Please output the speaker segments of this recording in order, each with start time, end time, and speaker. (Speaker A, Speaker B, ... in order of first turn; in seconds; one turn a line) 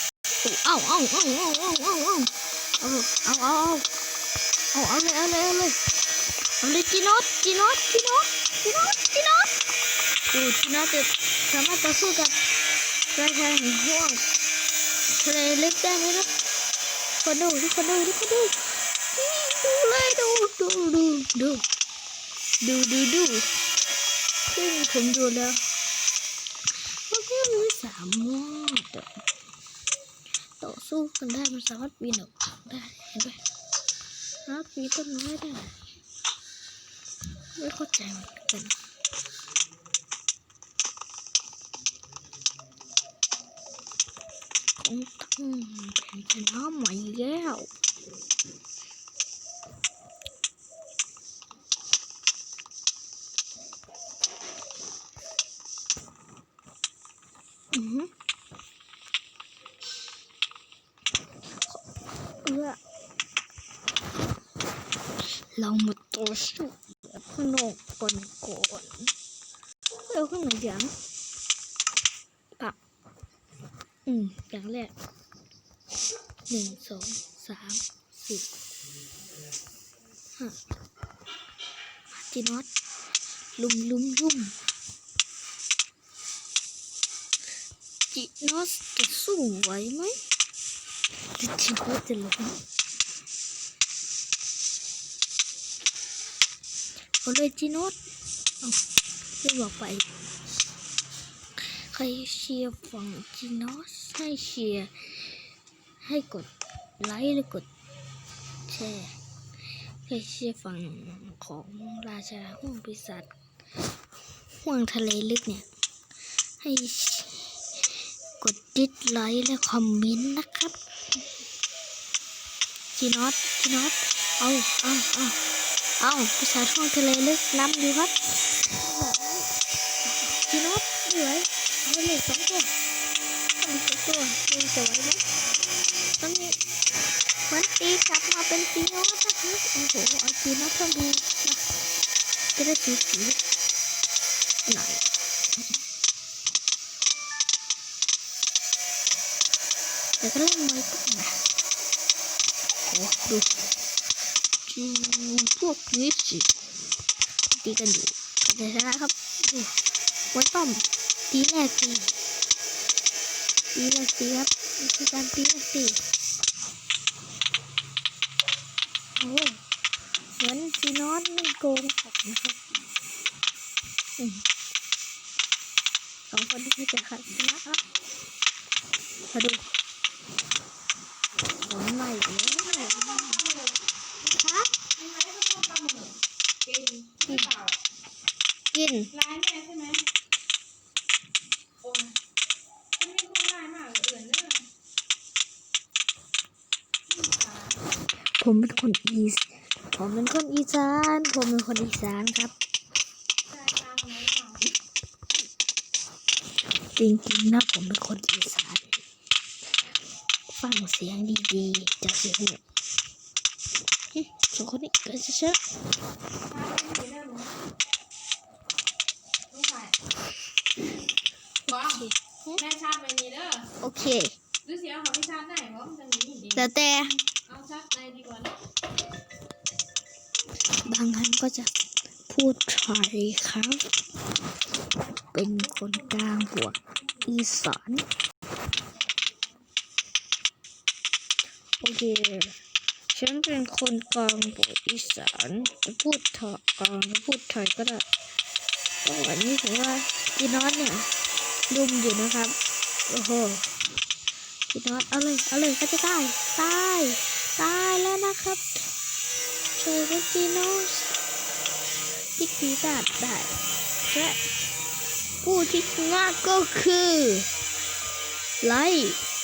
Speaker A: 0.4-2.3
Speaker A: 2.8-3.9
Speaker A: 4.7-5.8
Speaker A: 6.6-9.5
Speaker A: 10.3-12.4
Speaker A: 13.1-14.2
Speaker A: 15.2-16.3
Speaker A: 17.2-21.6
Speaker A: 22.6-23.4
Speaker A: 24.5-25.6
Speaker A: 27.1-29.1
Speaker A: 30.6-33.4
Speaker A: 34.5-35.8
Speaker A: 37.6-38.7
Speaker A: 44.8-47.7
Speaker A: 57.7-58.1
Speaker A: 62.4-62.8
Speaker A: 65.5-69.1
Speaker A: 70.1-70.9
Speaker A: 74.1-74.9
Speaker A: 76.5-78.5
Speaker A: 82.1-82.7
Speaker A: 83.6-84.5
Speaker A: 88.1-90.2
Speaker A: 91.4-92.6
Speaker A: 97.2-98.0
Speaker A: 99.4-100.1
Speaker A: 101.9-105.3
Speaker A: 106.0-107.7
Speaker A: 108.7-109.1
Speaker A: 110.1-113.3
Speaker A: 114.6-115.6
Speaker A: 116.6-117.5
Speaker A: 118.4-120.7
Speaker A: 123.0-125.4
Speaker A: 126.0-128.1
Speaker A: 128.8-129.5
Speaker A: 130.0-132.7
Speaker A: 133.6-135.2
Speaker A: 136.2-136.5
Speaker A: 137.5-141.6
Speaker A: 142.6-143.4
Speaker A: 144.7-145.0
Speaker A: 150.2-151.3
Speaker A: 152.9-153.5
Speaker A: 154.7-156.5
Speaker A: 157.6-159.7
Speaker A: 160.3-162.1
Speaker A: 163.7-166.0
Speaker A: 169.2-169.6
Speaker A: 170.4-172.6
Speaker A: 176.3-177.8
Speaker A: 179.3-179.6
Speaker A: 181.6-183.4
Speaker B: 182.4-183.9
Speaker A: 184.3-184.7
Speaker B: 184.9-187.8
Speaker A: 188.7-189.1
Speaker B: 189.1-190.0
Speaker B: 191.8-192.1
Speaker B: 192.9-194.6
Speaker B: 197.1-197.8
Speaker A: 198.4-202.5
Speaker B: 203.5-204.7
Speaker A: 206.9-208.9
Speaker A: 210.6-212.6
Speaker A: 214.1-215.6
Speaker B: 216.4-217.6
Speaker B: 219.5-219.9
Speaker A: 221.7-222.6
Speaker B: 221.7-222.0
Speaker B: 222.6-223.7
Speaker A: 223.8-224.3
Speaker B: 224.6-226.7
Speaker A: 226.5-227.2
Speaker B: 227.3-228.6
Speaker A: 230.8-231.7
Speaker A: 232.3-233.8
Speaker A: 235.3-238.0
Speaker A: 241.8-242.5
Speaker A: 243.1-248.0
Speaker A: 249.0-251.1
Speaker A: 251.7-252.5
Speaker A: 253.1-253.6
Speaker A: 254.7-258.6
Speaker A: 259.8-261.1
Speaker A: 262.4-263.5
Speaker A: 264.1-264.4
Speaker A: 265.4-267.5
Speaker A: 268.6-269.2